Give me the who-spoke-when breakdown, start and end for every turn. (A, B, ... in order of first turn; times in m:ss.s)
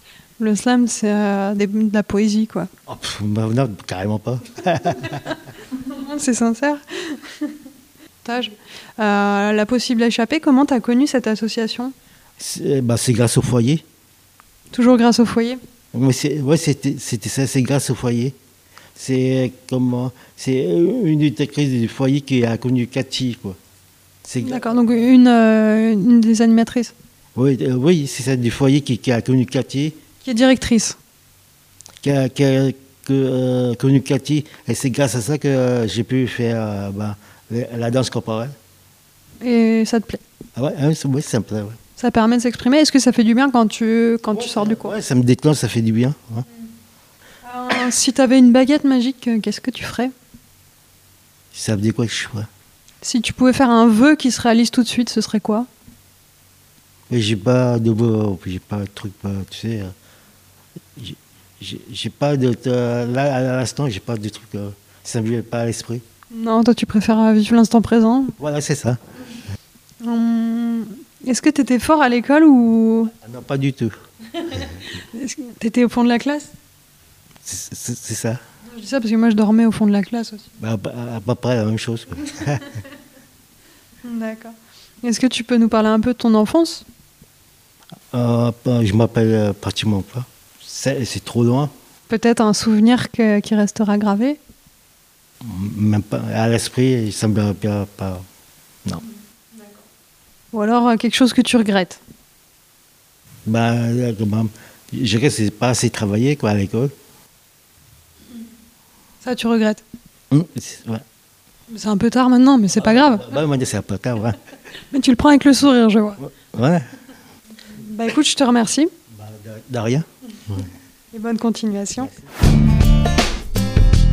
0:00.4-0:02.7 A
0:02.9-0:05.2 B
0:05.8-0:07.4 A
0:08.2-0:11.9 A
0:12.4-0:13.8 B
0:14.7-0:15.6 A
0:15.9-0:18.4 B
0:19.0-0:23.6 B
0:24.2-0:24.9 B
0:24.4-0:26.9 A
0:27.4-0:30.0 B
0:30.2-0:31.0 A
0:32.0-0:38.5 B
0:39.4-0:40.2 A
0:40.6-0:41.8 B
0:42.0-0:45.0 A
0:44.3-0:46.4 B
0:47.4-0:50.1 A
0:51.5-0:52.5 B
0:53.0-0:55.7 A
0:57.1-0:59.9 B
1:01.0-1:06.0 B
1:06.3-1:08.3 A
1:08.4-1:09.0 B
1:10.0-1:13.1 A
1:13.2-1:13.9 B
1:14.5-1:16.5 A
1:17.4-1:18.4 B
1:18.7-1:20.5 A
1:20.6-1:22.7 B
1:24.0-1:26.8 A
1:28.1-1:31.7 B
1:32.1-1:34.4 A
1:35.4-1:38.2 B
1:39.5-1:39.8 A
1:40.5-1:42.0 A
1:43.4-1:46.9 B
1:49.2-1:49.8 A
1:50.3-1:51.0 B
1:51.7-1:53.3 A
1:52.7-1:54.4 B
1:54.9-1:56.2 A
1:56.2-1:56.9 B
1:57.7-1:58.9 A
1:59.1-2:00.6 B
2:01.1-2:02.1 A